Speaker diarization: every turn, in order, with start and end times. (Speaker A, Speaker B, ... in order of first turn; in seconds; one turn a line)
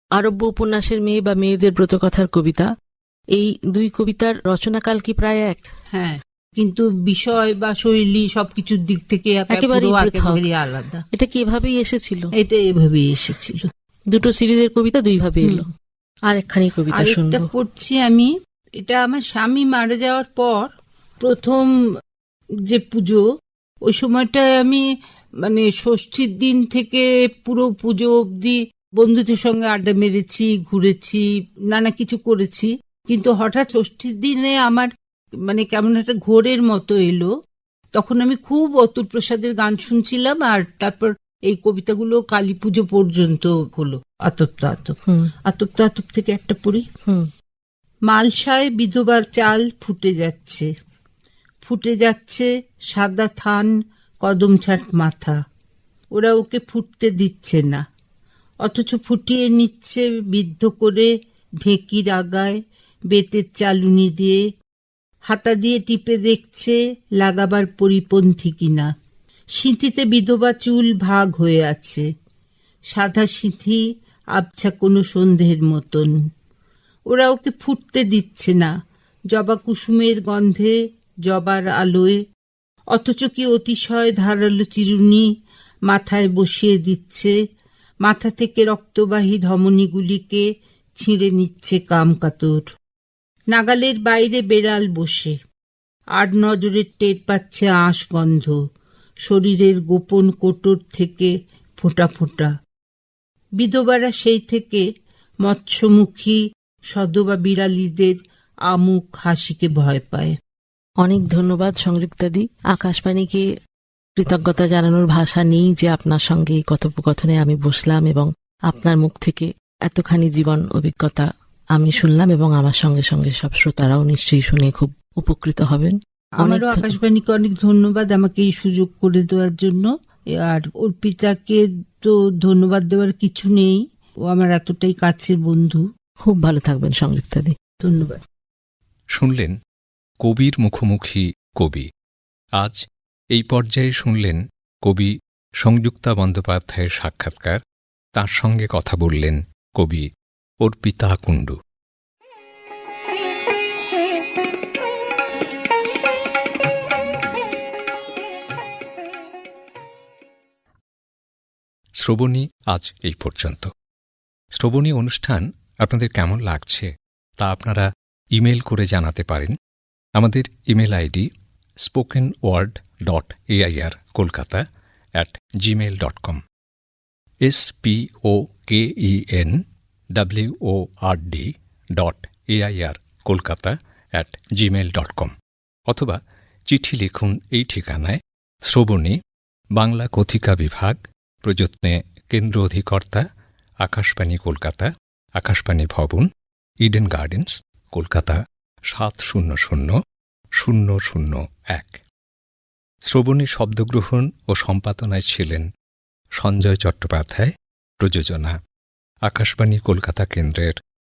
Speaker A: 0.2-2.7
Speaker A: 3.3-5.7
Speaker B: 5.9-11.0
Speaker A: 9.5-10.4
Speaker A: 11.1-12.3
Speaker B: 12.4-13.7
Speaker A: 14.1-15.7
Speaker A: 16.3-17.5
Speaker B: 16.9-21.7
Speaker B: 22.7-23.2
Speaker B: 23.9-24.8
Speaker B: 25.4-34.9
Speaker B: 35.5-37.3
Speaker B: 38.0-45.0
Speaker A: 45.1-45.3
Speaker B: 45.5-46.9
Speaker B: 48.1-50.7
Speaker B: 51.6-55.4
Speaker B: 56.2-57.8
Speaker B: 58.6-61.1
Speaker B: 61.6-62.6
Speaker B: 63.1-64.4
Speaker B: 65.3-68.9
Speaker B: 69.5-72.1
Speaker B: 72.9-73.8
Speaker B: 74.4-76.2
Speaker B: 77.1-78.7
Speaker B: 79.3-80.8
Speaker B: 81.3-82.2
Speaker B: 82.9-85.3
Speaker B: 85.9-87.3
Speaker B: 88.0-90.5
Speaker B: 91.0-92.7
Speaker B: 93.5-95.4
Speaker B: 96.2-98.6
Speaker B: 99.3-102.5
Speaker B: 103.6-104.9
Speaker B: 105.5-106.4
Speaker B: 106.9-108.2
Speaker B: 108.7-110.3
Speaker A: 111.0-113.5
Speaker A: 114.2-126.9
Speaker B: 126.4-135.8
Speaker A: 136.2-137.6
Speaker B: 137.8-138.2
Speaker C: 139.2-139.5
Speaker C: 140.2-141.9
Speaker C: 143.3-147.6
Speaker C: 148.2-150.1
Speaker C: 150.6-151.6
Speaker C: 162.0-163.7
Speaker C: 164.6-169.6
Speaker C: 170.2-171.3
Speaker C: 171.8-174.6
Speaker C: 175.2-176.4
Speaker C: 177.4-179.6
Speaker C: 180.2-185.3
Speaker C: 185.9-189.2
Speaker C: 189.8-193.2
Speaker C: 193.8-196.3
Speaker C: 196.8-199.9
Speaker C: 200.6-202.0
Speaker C: 203.1-205.7
Speaker C: 206.4-208.6
Speaker C: 209.3-210.8